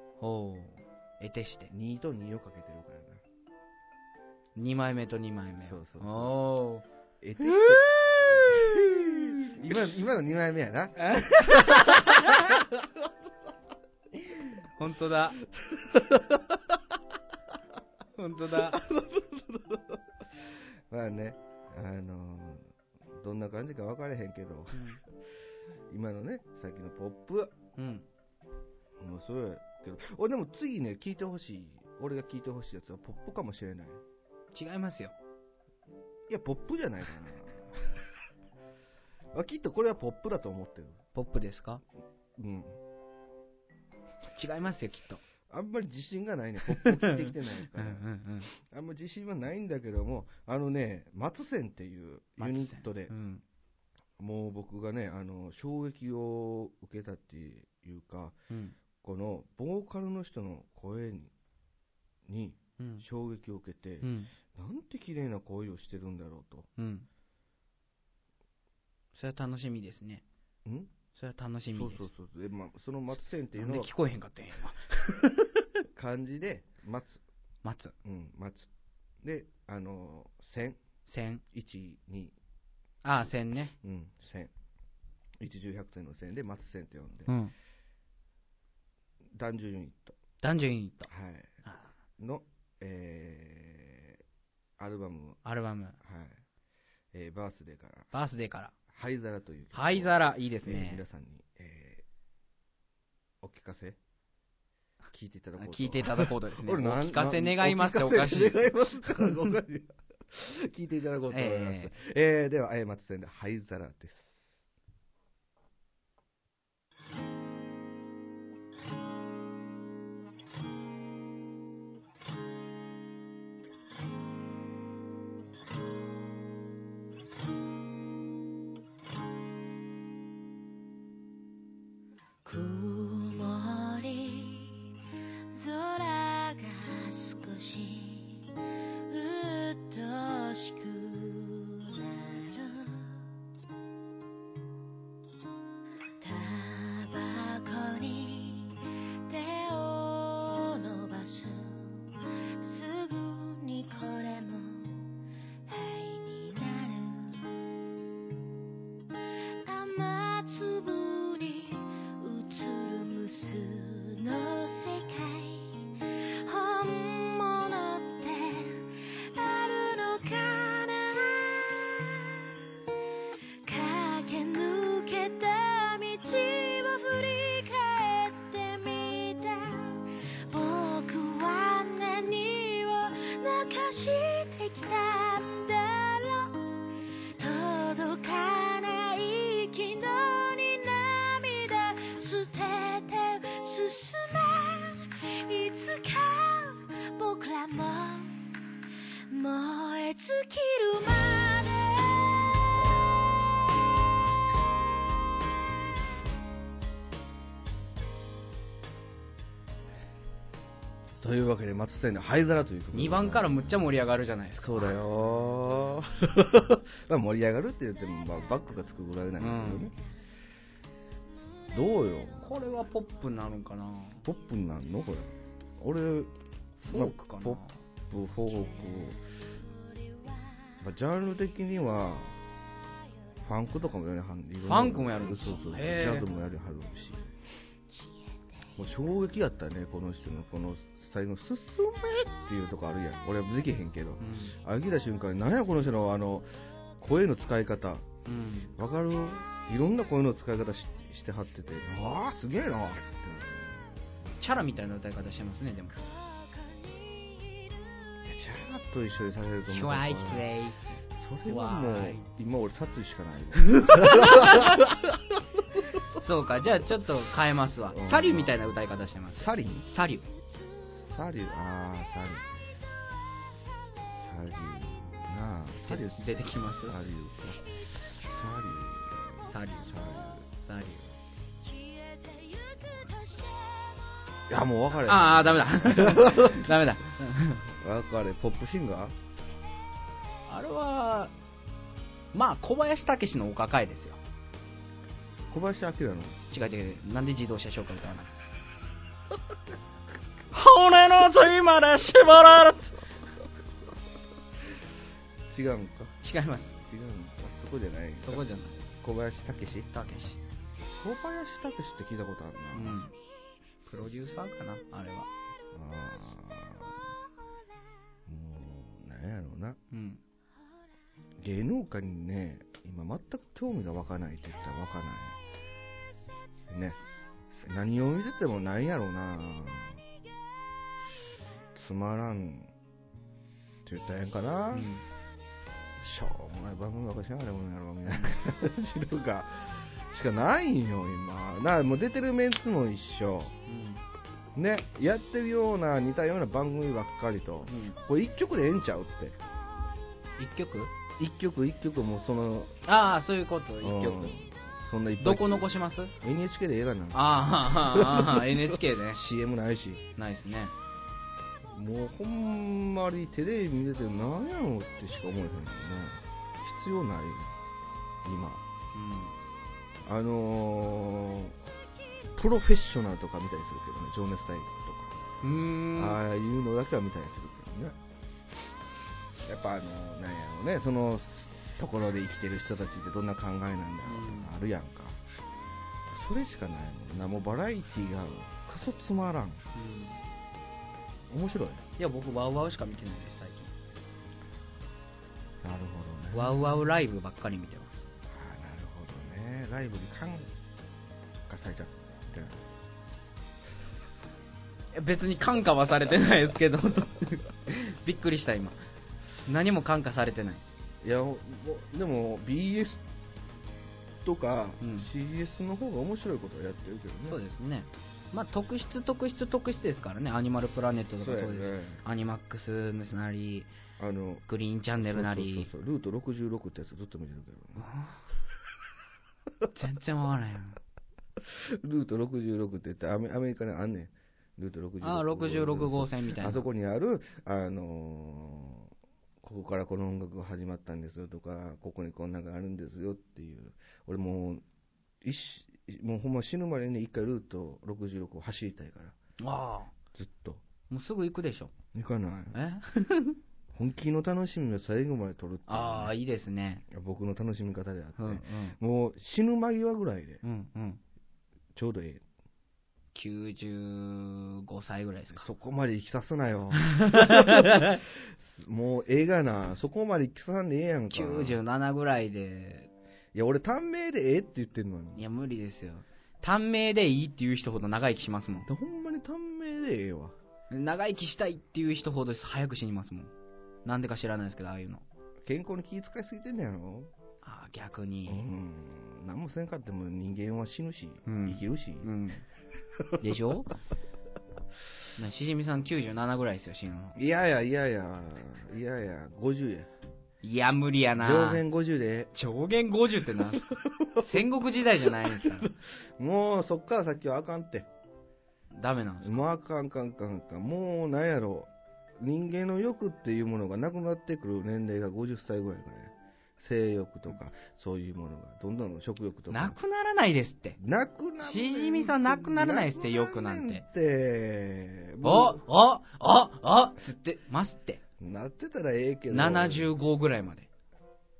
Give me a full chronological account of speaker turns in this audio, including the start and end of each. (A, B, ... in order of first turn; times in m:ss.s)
0:00.2-0:01.7 A
0:01.7-0:03.2 B
0:04.6-0:06.8 A
0:05.6-0:06.4 B
0:07.2-0:12.9 B
0:07.4-0:09.6 A
0:11.0-0:12.6 A
0:14.4-0:15.4 A
0:15.6-0:16.8 B
0:18.2-0:18.8 A
0:18.7-0:20.0 B
0:20.9-0:25.0 B
0:24.7-0:25.0 A
0:25.9-0:27.6 B
0:27.8-0:28.1 A
0:29.0-0:34.0 B
0:34.5-0:35.1 A
0:36.3-0:37.9 B
0:39.3-0:41.0 B
0:41.2-0:41.8 A
0:42.4-0:42.8 B
0:44.4-0:45.2 A
0:45.5-0:53.1 B
0:46.7-0:48.5 A
0:52.4-0:53.4 A
0:54.2-0:58.4 B
0:58.5-0:58.8 A
0:59.0-1:01.3 B
1:02.2-1:06.7 B
1:02.8-1:03.0 A
1:04.0-1:04.3 A
1:06.8-1:07.1 A
1:09.1-1:10.2 A
1:10.6-1:10.9 B
1:11.2-1:12.1 A
1:11.7-1:13.9 B
1:13.6-1:15.7 A
1:16.0-1:17.2 B
1:17.6-1:17.9 A
1:18.0-1:18.7 B
1:19.2-1:20.8 B
1:21.1-1:21.4 A
1:21.5-1:22.3 B
1:23.0-1:23.7 A
1:23.8-1:24.5 B
1:25.4-1:27.3 B
1:27.3-1:27.5 A
1:29.3-1:30.2 B
1:30.4-1:31.1 A
1:31.1-1:31.6 B
1:32.2-1:34.2 B
1:34.8-1:35.4 B
1:35.4-1:36.0 A
1:36.0-1:36.4 B
1:37.1-1:38.1 B
1:38.1-1:38.7 A
1:38.9-1:42.0 B
1:39.7-1:41.0 A
1:43.4-1:44.0 B
1:45.1-1:54.6 B
1:45.6-1:49.5 A
1:51.3-1:51.9 A
2:12.4-2:14.9 C
2:15.5-2:23.2 C
2:26.2-2:35.2 C
2:35.7-2:37.5 C
2:39.6-2:52.5 C
2:53.6-3:18.4 C
3:19.3-3:22.1 C
3:31.2-3:33.9 B
3:32.9-3:35.0 A
3:34.6-3:40.0 B
3:39.4-3:39.9 A
3:41.7-3:42.5 B
3:42.4-3:44.3 A
3:44.2-3:46.3 B
3:46.8-3:47.8 A
3:46.9-3:49.2 B
3:50.8-3:52.4 B
3:53.4-3:57.3 B
3:54.7-3:56.3 A
3:58.8-4:08.1 B
4:04.2-4:04.6 A
4:08.3-4:08.7 A
4:08.8-4:13.9 B
4:14.4-4:16.0 A
4:18.2-4:20.5 B
4:19.7-4:22.3 A
4:21.1-4:26.0 B
4:23.7-4:24.8 A
4:26.1-4:30.3 A
4:27.9-4:28.6 B
4:29.4-4:29.9 B
4:31.0-4:32.5 B
4:34.1-4:40.5 B
4:35.9-4:37.0 A
4:39.4-4:41.1 A
4:42.2-4:44.0 C
4:44.5-4:46.8 B
4:45.0-4:47.7 A
4:47.8-4:49.2 B
4:50.5-4:51.3 A
4:52.3-4:54.2 A
4:55.5-4:56.4 B
4:56.5-4:58.3 A
5:00.5-5:03.0 A
5:05.5-5:06.2 B
5:06.2-5:06.8 A
5:06.8-5:08.4 B
5:08.2-5:08.9 A
5:09.0-5:09.9 B
5:09.9-5:10.4 A
5:11.0-5:13.0 B
5:12.7-5:13.2 A
5:13.8-5:15.3 A
5:15.7-5:17.0 B
5:18.3-5:19.8 B
5:19.9-5:20.2 A
5:21.4-5:25.4 B
5:26.7-5:27.0 B
5:27.6-5:30.0 B
5:31.7-5:32.7 B
5:33.8-5:34.9 B
5:34.7-5:35.0 A
5:36.0-5:43.6 B
5:43.7-5:44.0 A
5:44.6-5:49.4 B
5:47.7-5:48.0 A
5:50.4-5:50.9 A
5:51.2-5:52.8 B
5:52.8-5:54.4 A
5:53.8-6:00.0 B
5:55.2-5:56.1 A
5:57.1-5:59.2 A
6:00.2-6:00.7 A
6:01.7-6:07.6 B
6:08.2-6:08.6 B
6:08.9-6:09.3 A
6:10.0-6:11.6 B
6:12.4-6:15.2 B
6:15.4-6:16.2 A
6:16.0-6:18.0 B
6:19.4-6:25.2 B
6:24.0-6:24.5 A
6:26.1-6:29.6 B
6:29.8-6:30.2 A
6:31.3-6:31.8 B
6:32.0-6:33.7 A
6:35.6-6:36.6 B
6:36.3-6:38.1 A
6:38.3-6:40.5 B
6:41.5-6:42.7 B
6:44.9-6:48.8 A
6:49.5-6:50.6 A
6:51.0-6:53.0 B
6:54.2-6:57.4 B
6:54.8-6:55.1 A
6:57.3-7:03.7 A
7:01.2-7:02.0 B
7:04.0-7:04.4 B
7:04.5-7:05.7 A
7:05.0-7:07.9 B
7:07.8-7:08.2 A
7:09.7-7:10.8 A
7:11.4-7:24.6 B
7:15.0-7:16.7 A
7:25.2-7:29.2 B
7:29.4-7:29.9 A
7:30.1-7:30.6 B
7:30.9-7:31.7 A
7:31.9-7:32.6 B
7:32.5-7:33.4 A
7:33.7-7:36.1 B
7:35.7-7:36.8 A
7:36.9-7:40.4 B
7:38.2-7:38.8 A
7:40.4-7:41.0 A
7:41.8-7:42.2 B
7:43.1-7:45.5 A
7:45.3-7:51.6 B
7:46.8-7:48.0 A
7:51.1-7:52.9 A
7:53.3-7:55.2 B
7:55.2-7:58.7 A
7:58.7-8:00.4 B
8:00.7-8:03.3 A
8:03.8-8:05.0 A
8:05.4-8:07.1 B
8:07.4-8:08.4 A
8:08.3-8:12.1 B
8:11.3-8:12.4 A
8:13.2-8:13.7 A
8:15.2-8:17.2 A
8:17.2-8:19.9 B
8:20.4-8:21.6 A
8:21.2-8:22.3 B
8:22.3-8:25.7 A
8:23.9-8:24.2 B
8:25.2-8:27.9 B
8:28.7-8:29.4 A
8:29.2-8:39.8 B
8:39.5-8:40.8 A
8:40.8-8:45.6 B
8:41.4-8:43.8 A
8:45.2-8:48.0 A
8:48.2-8:50.0 B
8:49.3-8:50.7 A